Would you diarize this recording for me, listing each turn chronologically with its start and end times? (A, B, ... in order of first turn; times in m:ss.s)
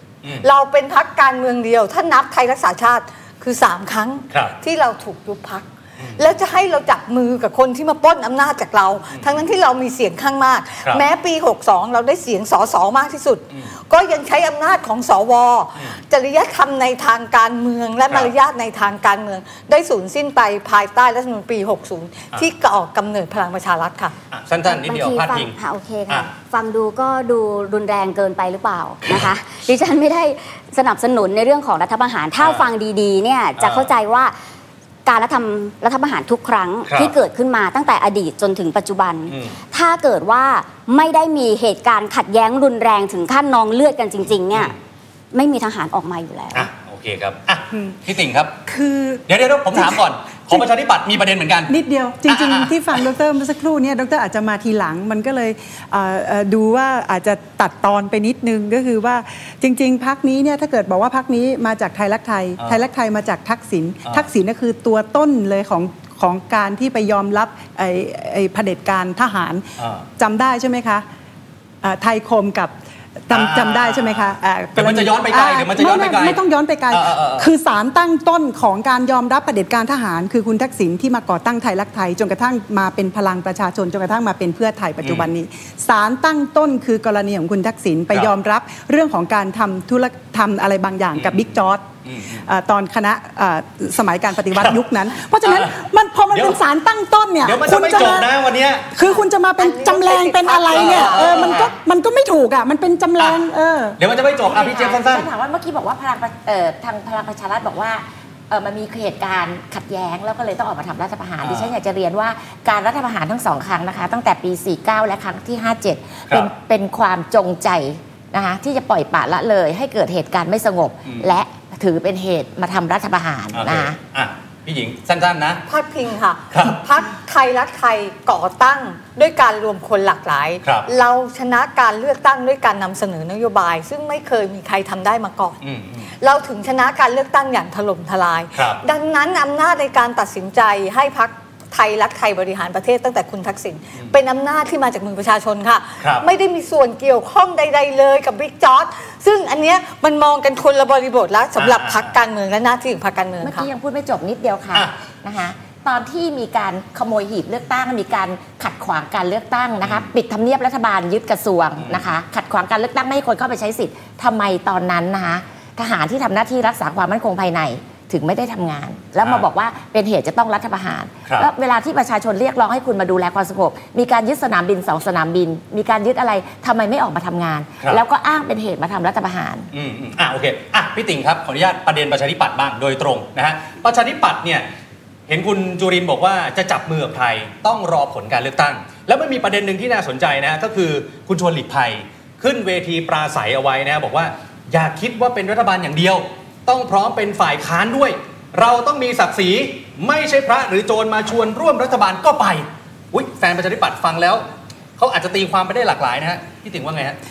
0:00.4-0:24.1 A
0:24.3-0:25.6 B
0:24.7-0:34.3 C
0:29.1-0:29.3 B
0:32.4-0:32.7 B
0:33.6-0:33.9 B
0:35.1-0:44.8 C
0:36.9-0:37.2 B
0:39.3-0:39.6 B
0:45.3-0:46.7 C
0:46.5-0:48.6 B
0:48.7-0:50.6 D
0:49.3-0:51.7 B
0:51.7-1:09.7 D
0:52.3-0:52.7 B
1:09.8-1:10.1 B
1:10.2-1:11.0 D
1:11.8-1:12.8 D
1:13.3-1:38.3 D
1:13.3-1:16.4 B
1:16.9-1:17.5 B
1:25.0-1:25.3 B
1:32.1-1:32.4 B
1:35.4-1:35.8 B
1:36.3-1:36.6 B
1:37.4-1:38.9 B
1:38.9-1:44.0 D
1:39.1-1:41.6 A
1:40.7-1:41.7 B
1:44.0-1:45.3 B
1:44.5-2:04.0 E
1:51.4-1:51.7 B
2:03.5-2:05.6 B
2:05.7-2:15.6 A
2:06.5-2:06.8 B
2:15.6-2:16.1 B
2:16.2-2:33.7 A
2:18.6-2:18.8 B
2:26.0-2:26.3 B
2:31.6-2:32.1 B
2:33.4-2:59.7 E
2:39.8-2:40.1 B
2:41.8-2:42.0 B
2:59.7-3:04.7 B
3:05.3-3:24.4 B
3:25.0-3:27.2 B